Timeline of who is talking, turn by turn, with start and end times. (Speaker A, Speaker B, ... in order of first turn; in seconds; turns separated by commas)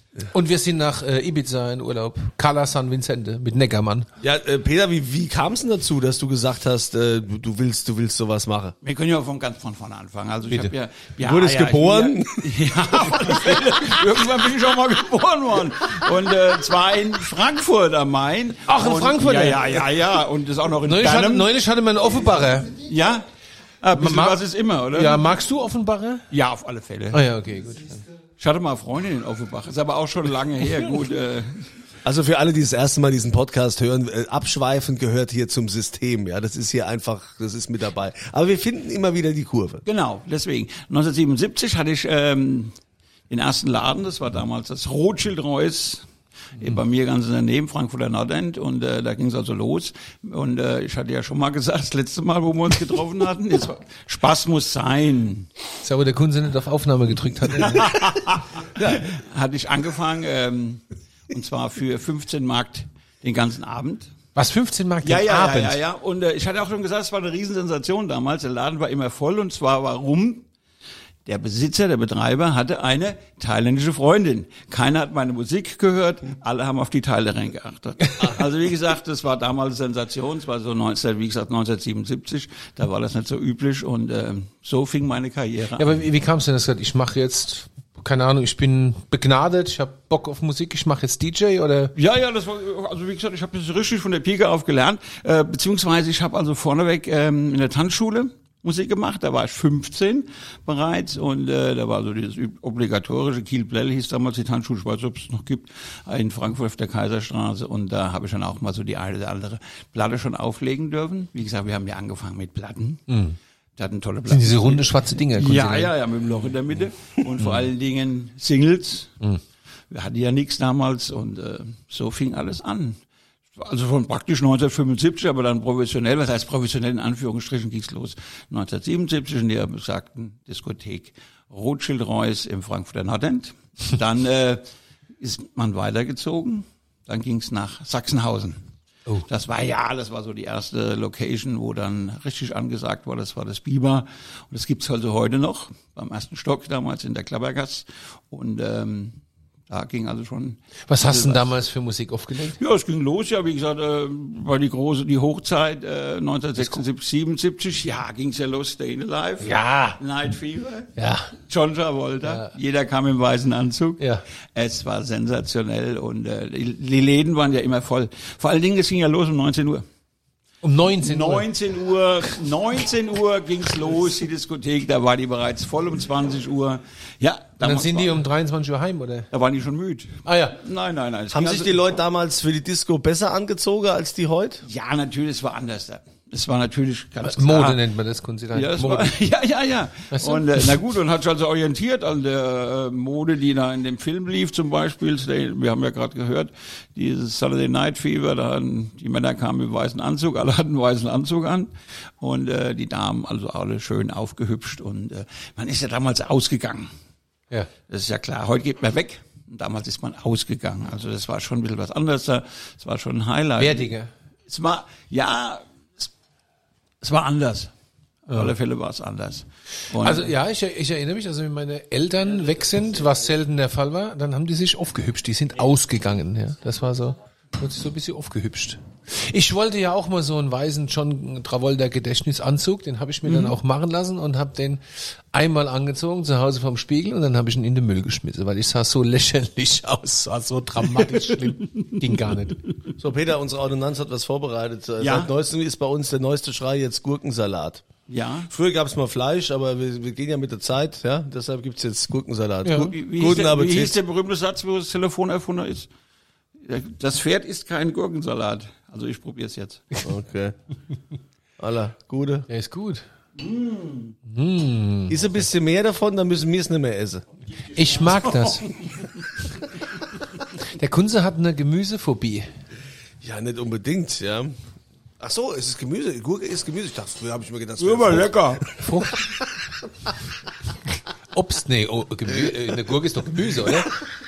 Speaker A: 0.3-4.1, Speaker B: 4.2-8.7, Speaker C: 8.8-21.5, Speaker B: 11.2-14.0, Speaker A: 18.7-19.9, Speaker A: 20.8-22.8, Speaker C: 22.8-23.2, Speaker C: 23.8-25.2, Speaker A: 23.9-26.2, Speaker C: 26.3-27.2, Speaker A: 27.1-28.0, Speaker C: 28.4-31.7, Speaker B: 32.0-39.8, Speaker C: 39.8-42.7, Speaker C: 43.3-46.0, Speaker C: 46.6-55.5, Speaker A: 55.8-58.0, Speaker C: 57.6-64.1, Speaker B: 58.8-59.0, Speaker A: 64.3-65.8, Speaker C: 65.0-70.5, Speaker C: 71.2-85.9, Speaker A: 85.8-91.9, Speaker C: 91.9-113.1, Speaker A: 113.1-113.4, Speaker C: 113.8-119.2, Speaker A: 114.3-115.9, Speaker C: 119.9-123.0, Speaker C: 123.5-134.6, Speaker C: 135.2-138.6, Speaker C: 139.2-149.2, Speaker C: 149.7-151.5, Speaker A: 150.9-152.6, Speaker C: 152.6-160.9, Speaker A: 156.6-156.8, Speaker A: 159.4-160.0, Speaker A: 161.0-161.3, Speaker C: 161.5-169.8, Speaker A: 162.2-162.5, Speaker A: 170.6-171.5, Speaker C: 171.0-178.2, Speaker A: 177.6-179.3, Speaker C: 179.3-181.8, Speaker A: 180.2-180.6, Speaker B: 181.3-184.6, Speaker C: 184.7-187.8, Speaker A: 187.2-189.2, Speaker C: 188.5-206.9, Speaker A: 190.1-190.7, Speaker C: 207.9-213.9, Speaker A: 213.6-214.1, Speaker C: 214.5-216.1, Speaker C: 217.0-217.7, Speaker C: 218.2-220.3, Speaker A: 220.0-234.8, Speaker C: 233.3-233.5, Speaker A: 235.3-242.6, Speaker B: 243.0-247.8, Speaker C: 245.0-245.3, Speaker C: 248.1-248.5, Speaker B: 248.5-254.0, Speaker A: 252.6-252.9, Speaker C: 252.9-255.9, Speaker C: 256.6-259.8, Speaker B: 260.0-260.5, Speaker B: 261.6-262.5, Speaker A: 262.5-263.0, Speaker C: 263.4-264.1, Speaker A: 264.3-265.3, Speaker B: 265.1-267.2, Speaker A: 267.7-268.7, Speaker A: 270.6-272.4, Speaker B: 273.2-274.5, Speaker B: 275.2-279.3, Speaker C: 277.8-278.6, Speaker A: 278.8-279.2, Speaker A: 281.3-284.0